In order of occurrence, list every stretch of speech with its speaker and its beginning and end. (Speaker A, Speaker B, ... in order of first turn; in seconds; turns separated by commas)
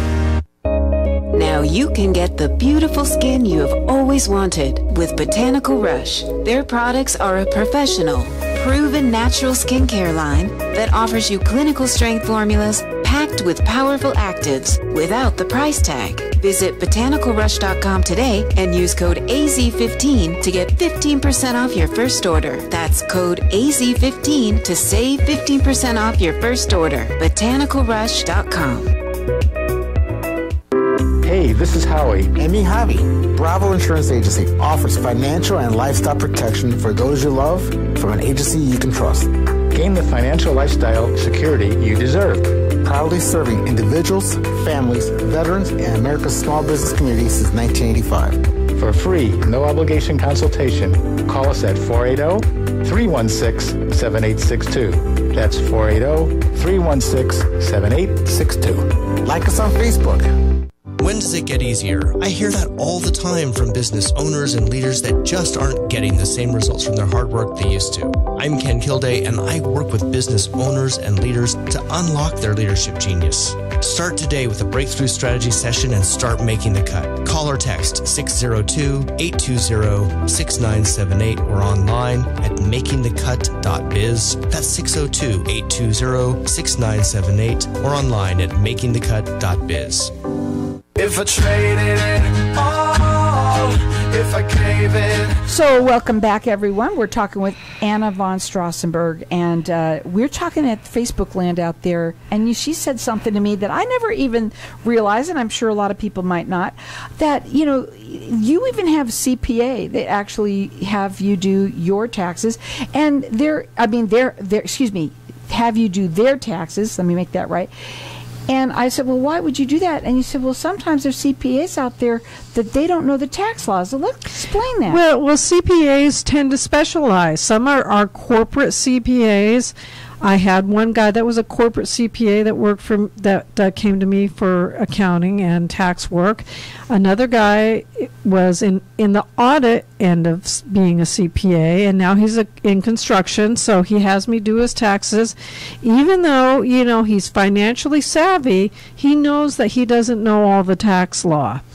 Speaker A: 1.3-29.0, Speaker B: 31.3-32.2, Speaker C: 32.2-39.8, Speaker B: 39.8-42.6, Speaker C: 42.5-48.4, Speaker B: 48.8-58.8, Speaker C: 59.0-60.3, Speaker D: 61.0-90.1, Speaker E: 91.0-95.4, Speaker F: 95.5-117.7, Speaker F: 118.5-125.0, Speaker G: 124.9-151.6